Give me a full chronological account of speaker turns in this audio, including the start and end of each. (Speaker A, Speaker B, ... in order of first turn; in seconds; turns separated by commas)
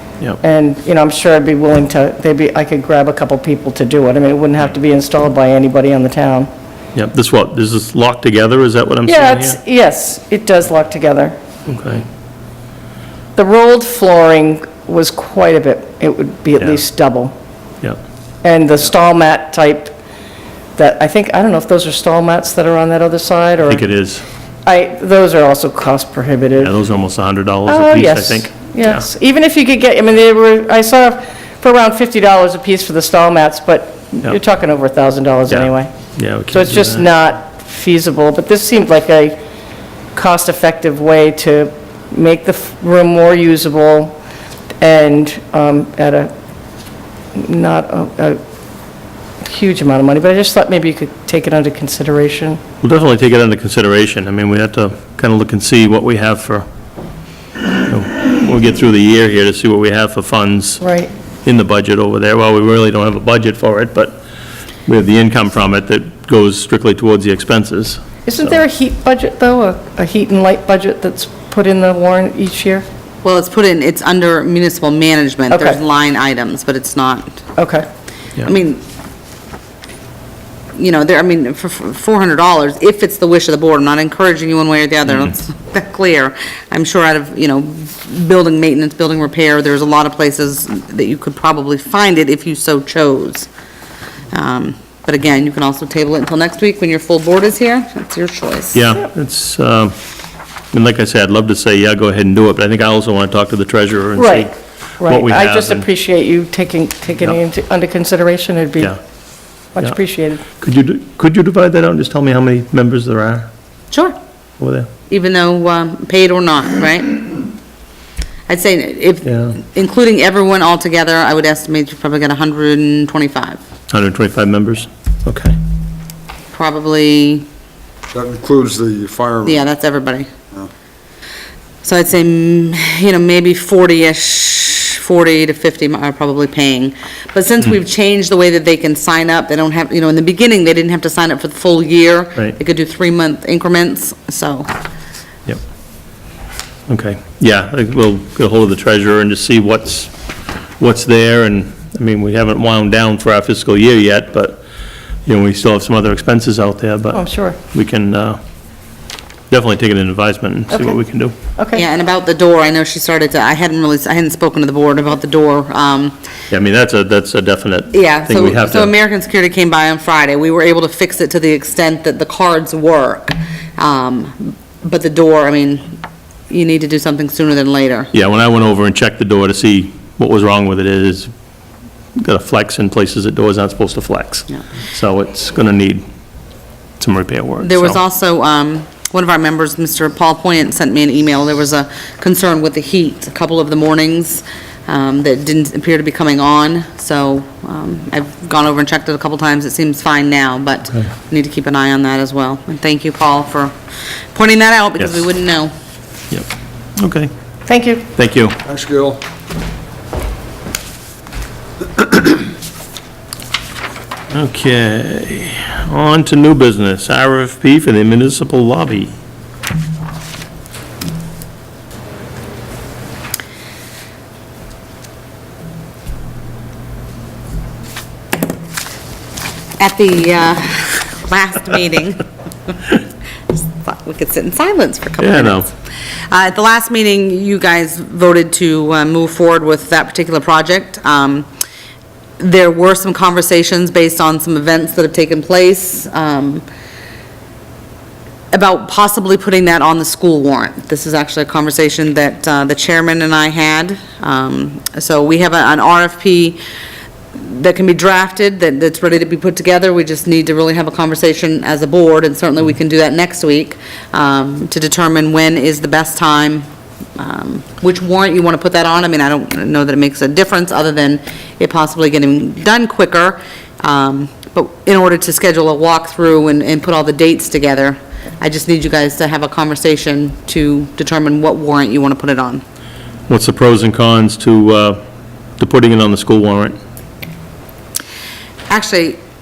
Speaker A: 0.4-6.5, Speaker B: 6.9-9.6, Speaker A: 9.1-11.4, Speaker B: 11.7-12.0, Speaker A: 13.3-17.3, Speaker A: 18.4-19.9, Speaker A: 20.8-23.8, Speaker B: 23.6-24.2, Speaker A: 24.6-26.7, Speaker B: 26.6-29.1, Speaker A: 27.7-35.9, Speaker B: 35.5-37.1, Speaker A: 36.5-39.4, Speaker A: 40.1-44.2, Speaker A: 44.8-46.3, Speaker A: 47.3-48.4, Speaker A: 49.4-52.6, Speaker B: 52.8-56.6, Speaker B: 57.8-60.8, Speaker A: 60.8-61.1, Speaker B: 61.4-64.2, Speaker B: 64.8-68.5, Speaker A: 68.2-72.8, Speaker C: 73.2-77.4, Speaker A: 75.5-75.8, Speaker A: 77.6-77.8, Speaker C: 78.4-78.8, Speaker C: 80.7-93.5, Speaker C: 94.3-98.8, Speaker B: 98.7-99.9, Speaker B: 100.7-105.9, Speaker A: 104.2-109.0, Speaker A: 109.7-110.4, Speaker B: 110.5-113.5, Speaker C: 113.9-114.2, Speaker B: 114.6-114.9, Speaker C: 115.1-117.2, Speaker C: 118.5-123.6, Speaker B: 119.2-119.5, Speaker B: 123.9-125.6, Speaker C: 126.5-127.5, Speaker D: 128.1-129.6, Speaker C: 129.4-130.3, Speaker C: 131.8-144.7, Speaker B: 146.9-150.1, Speaker B: 150.8-154.6, Speaker B: 155.2-158.4, Speaker A: 157.1-157.6, Speaker B: 159.5-161.3, Speaker A: 160.7-161.0, Speaker A: 161.6-161.8, Speaker C: 161.7-166.1, Speaker B: 166.5-168.9, Speaker C: 167.9-176.0, Speaker C: 176.5-178.1, Speaker B: 178.1-181.3, Speaker B: 182.2-186.0, Speaker B: 187.0-188.0, Speaker C: 187.6-203.7, Speaker C: 204.3-205.7, Speaker B: 207.0-207.3, Speaker A: 207.7-208.1, Speaker B: 208.1-208.6, Speaker D: 208.6-209.2, Speaker B: 214.3-219.1, Speaker C: 229.8-232.9, Speaker C: 233.5-235.7, Speaker B: 235.2-235.7, Speaker C: 236.3-241.5, Speaker C: 242.4-246.6, Speaker C: 248.5-256.6, Speaker C: 257.3-266.6, Speaker C: 267.2-282.6, Speaker B: 283.3-285.0, Speaker B: 285.6-286.8, Speaker C: 288.7-289.2